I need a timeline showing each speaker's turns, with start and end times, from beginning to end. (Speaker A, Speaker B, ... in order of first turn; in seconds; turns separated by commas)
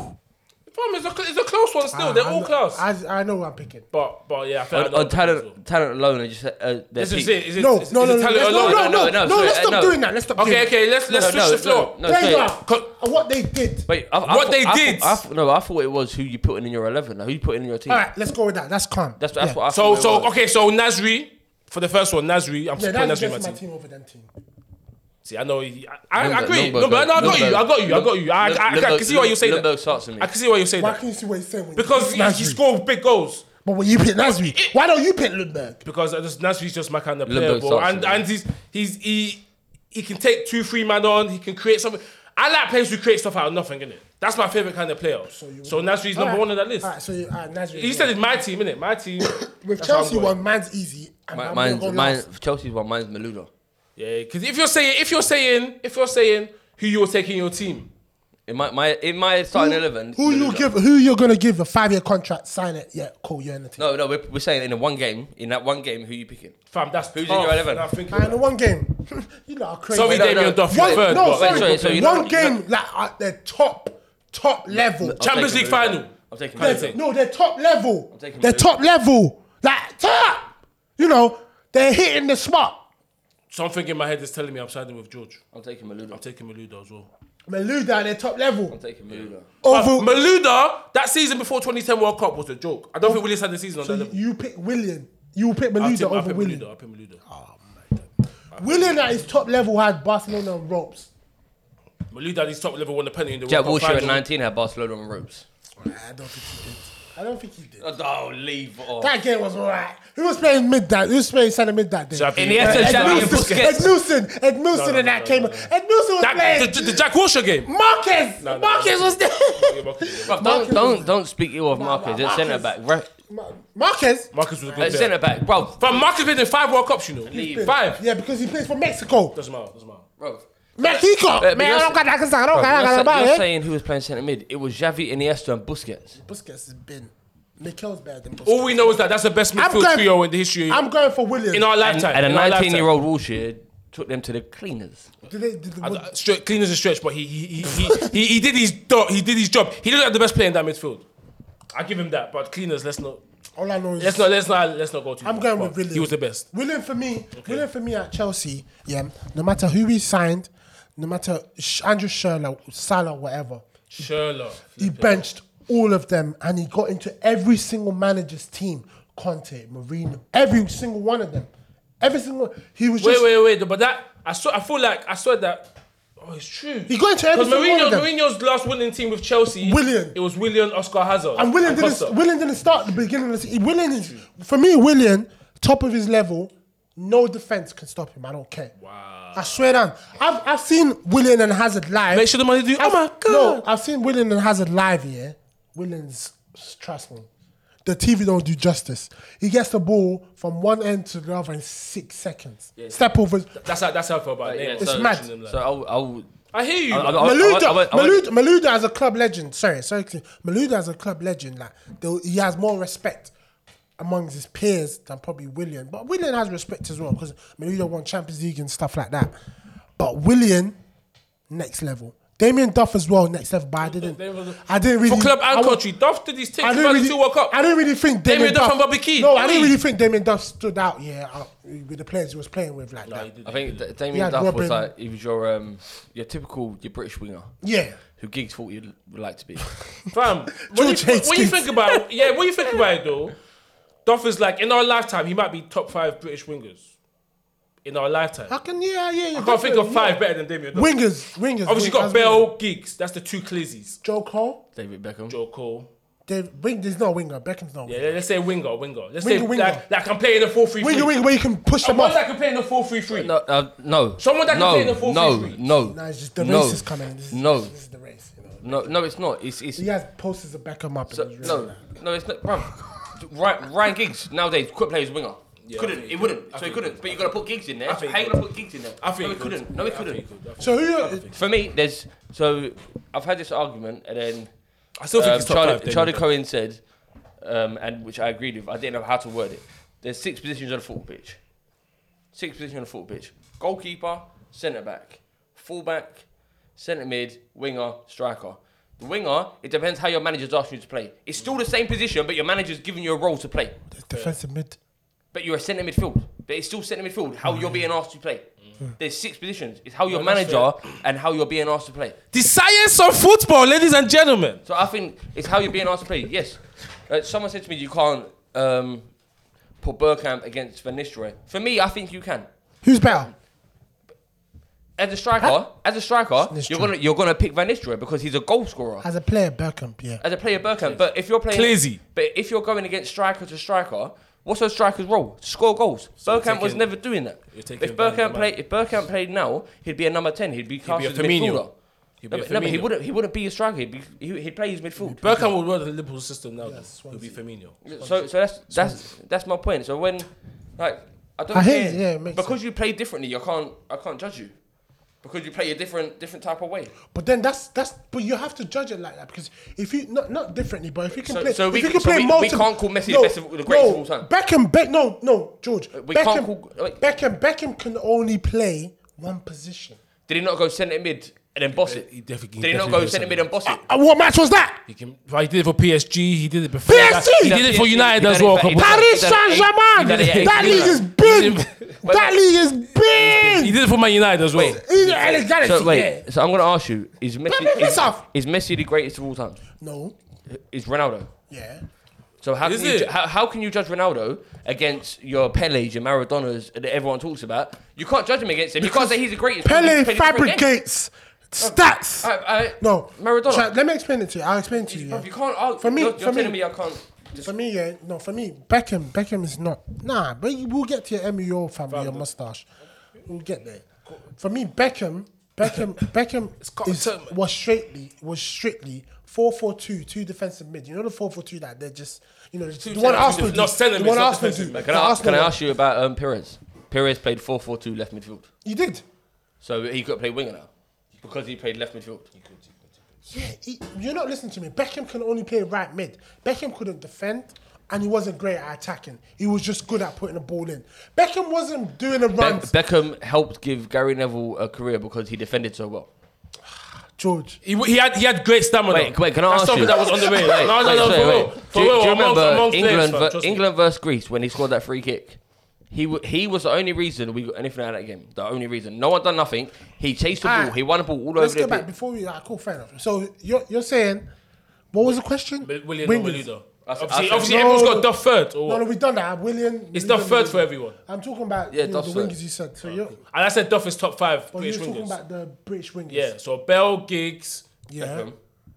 Speaker A: 0.7-2.8, Speaker B: 1.9-3.9, Speaker A: 3.9-5.6, Speaker C: 4.7-7.4, Speaker A: 7.0-8.9, Speaker B: 7.6-11.4, Speaker C: 8.4-10.0, Speaker A: 10.4-12.0, Speaker C: 11.1-12.5, Speaker B: 12.0-13.9, Speaker A: 12.6-12.9, Speaker C: 13.9-18.0, Speaker A: 14.2-15.2, Speaker B: 17.9-19.6, Speaker C: 19.2-20.3, Speaker A: 19.7-23.6, Speaker B: 22.8-24.3, Speaker A: 25.2-31.0, Speaker C: 26.2-30.3, Speaker B: 27.2-27.5, Speaker B: 30.8-32.6, Speaker A: 31.8-33.5, Speaker B: 33.6-35.8, Speaker A: 34.2-34.7, Speaker A: 35.8-46.9, Speaker C: 37.2-38.2, Speaker B: 45.3-48.4, Speaker A: 47.7-50.3, Speaker B: 49.2-52.2, Speaker C: 51.3-53.5, Speaker A: 54.0-57.9, Speaker C: 58.5-60.7, Speaker B: 59.5-63.9, Speaker C: 63.8-66.5, Speaker A: 66.7-68.4, Speaker C: 67.1-67.9, Speaker B: 68.1-75.2, Speaker A: 69.9-72.2, Speaker C: 69.9-72.6, Speaker C: 74.7-77.0, Speaker A: 75.2-77.0, Speaker B: 76.6-82.8, Speaker C: 78.1-78.7, Speaker A: 83.5-85.4, Speaker C: 85.5-86.2, Speaker A: 86.1-87.1, Speaker B: 87.5-88.8, Speaker C: 88.7-89.5, Speaker A: 89.1-94.2, Speaker B: 89.6-90.1, Speaker B: 93.8-96.6, Speaker A: 95.8-97.2, Speaker B: 97.3-101.1, Speaker A: 98.5-99.0, Speaker A: 102.1-104.2, Speaker C: 103.5-105.5, Speaker B: 105.8-107.8, Speaker C: 107.8-109.1, Speaker B: 109.0-117.0, Speaker A: 112.1-113.8, Speaker C: 112.3-113.9, Speaker A: 114.7-117.7, Speaker B: 117.6-121.1, Speaker A: 118.4-120.8, Speaker C: 120.3-123.1, Speaker B: 121.7-122.7, Speaker B: 123.3-125.0, Speaker A: 124.3-125.2, Speaker C: 124.8-126.0, Speaker A: 125.8-128.0, Speaker C: 127.3-127.8, Speaker B: 127.3-129.3, Speaker A: 129.3-130.1, Speaker C: 130.2-132.0, Speaker B: 130.8-133.5, Speaker C: 132.5-136.2, Speaker B: 136.2-139.0, Speaker A: 138.4-140.8, Speaker B: 139.6-140.1, Speaker B: 140.7-141.7, Speaker A: 141.5-142.9, Speaker C: 141.8-145.1, Speaker B: 145.3-146.1, Speaker A: 145.8-151.1, Speaker A: 151.7-153.2, Speaker B: 153.6-154.3, Speaker A: 154.0-156.4, Speaker B: 155.2-163.6, Speaker A: 157.3-157.7, Speaker A: 163.9-165.3, Speaker B: 164.8-173.3, Speaker A: 173.0-175.7, Speaker A: 176.2-182.2, Speaker B: 176.9-178.1, Speaker B: 179.6-180.2, Speaker B: 181.3-188.7, Speaker A: 188.8-189.6, Speaker B: 189.3-197.3, Speaker A: 192.1-193.6, Speaker B: 197.8-203.6, Speaker A: 203.5-205.6, Speaker C: 204.4-206.3, Speaker B: 204.8-205.3, Speaker A: 206.5-207.3, Speaker C: 206.9-208.2, Speaker B: 207.1-213.3, Speaker B: 214.0-219.3, Speaker B: 220.0-220.8, Speaker B: 221.5-225.8, Speaker A: 223.8-227.6, Speaker B: 226.6-233.3, Speaker A: 228.2-229.8, Speaker A: 233.0-233.9, Speaker C: 233.4-237.5, Speaker B: 234.1-234.9, Speaker B: 237.6-238.0, Speaker C: 238.2-239.7, Speaker A: 240.1-243.3, Speaker B: 240.7-241.7, Speaker A: 244.0-246.9, Speaker A: 247.8-248.5, Speaker B: 248.5-250.2, Speaker A: 249.3-251.0, Speaker B: 250.7-252.5, Speaker A: 251.6-254.0, Speaker B: 254.0-254.6, Speaker C: 254.8-255.3, Speaker A: 255.3-255.9, Speaker B: 256.3-258.0, Speaker A: 257.9-261.1, Speaker B: 259.2-259.8, Speaker B: 260.8-262.2, Speaker A: 261.8-263.3, Speaker C: 263.1-267.7, Speaker A: 264.2-265.6, Speaker B: 265.8-268.9, Speaker C: 268.6-269.9, Speaker B: 269.7-271.8, Speaker C: 271.1-280.2, Speaker A: 275.6-278.4, Speaker A: 279.0-281.3, Speaker B: 280.6-281.2, Speaker C: 281.3-284.5, Speaker A: 285.0-286.2, Speaker C: 285.1-286.8, Speaker C: 287.4-291.4, Speaker C: 292.3-296.2, Speaker C: 296.8-303.7, Speaker B: 303.9-304.8, Speaker C: 305.3-308.4, Speaker B: 307.5-307.8, Speaker C: 309.0-312.2, Speaker A: 310.1-310.7, Speaker A: 312.3-314.6, Speaker C: 314.6-319.0, Speaker C: 319.8-322.5, Speaker B: 322.8-323.3, Speaker C: 325.0-329.1, Speaker B: 326.4-326.9, Speaker B: 329.0-330.2, Speaker C: 330.2-341.7, Speaker A: 330.8-332.0, Speaker A: 336.2-336.9, Speaker A: 337.5-338.5, Speaker A: 340.8-341.6, Speaker A: 342.2-342.9, Speaker C: 342.3-345.3, Speaker B: 345.0-345.5, Speaker A: 345.2-347.8, Speaker B: 346.6-349.1, Speaker C: 347.8-354.5, Speaker B: 351.5-352.6, Speaker C: 355.2-356.9, Speaker B: 357.1-370.0, Speaker C: 361.1-364.3, Speaker C: 365.9-367.0, Speaker C: 370.3-372.1, Speaker A: 371.8-373.4, Speaker C: 372.6-373.8, Speaker B: 373.6-374.8, Speaker A: 374.9-379.1, Speaker B: 376.9-377.6, Speaker C: 377.4-381.0, Speaker B: 378.8-383.8, Speaker A: 380.0-382.0, Speaker C: 382.0-382.3, Speaker A: 383.1-386.2, Speaker B: 384.5-386.2, Speaker C: 385.6-389.6, Speaker B: 387.5-388.2, Speaker B: 389.8-390.1, Speaker C: 390.5-391.3, Speaker B: 391.5-391.8, Speaker C: 392.4-400.6, Speaker A: 392.6-393.1, Speaker B: 398.8-406.6, Speaker C: 401.6-403.7, Speaker C: 404.8-407.5, Speaker B: 407.4-412.7, Speaker A: 411.9-412.3, Speaker B: 413.2-425.6, Speaker A: 416.6-417.3, Speaker A: 422.8-424.9, Speaker C: 423.0-423.6, Speaker C: 424.7-428.5, Speaker B: 428.6-429.0, Speaker C: 429.6-430.7, Speaker C: 431.2-432.3, Speaker A: 432.4-432.7, Speaker B: 433.3-442.7, Speaker C: 442.4-446.1, Speaker B: 447.1-447.6, Speaker A: 447.6-453.6, Speaker C: 448.9-455.4, Speaker B: 449.9-450.5, Speaker C: 455.9-461.9, Speaker B: 460.4-460.8, Speaker B: 461.4-464.3, Speaker B: 464.9-466.5, Speaker A: 465.6-468.8, Speaker C: 466.8-467.6, Speaker B: 467.4-468.1, Speaker B: 468.6-473.2, Speaker A: 469.9-470.9, Speaker C: 471.7-472.4, Speaker A: 472.9-475.2, Speaker B: 474.5-476.3, Speaker A: 476.1-477.6, Speaker B: 477.9-478.3, Speaker C: 478.0-478.4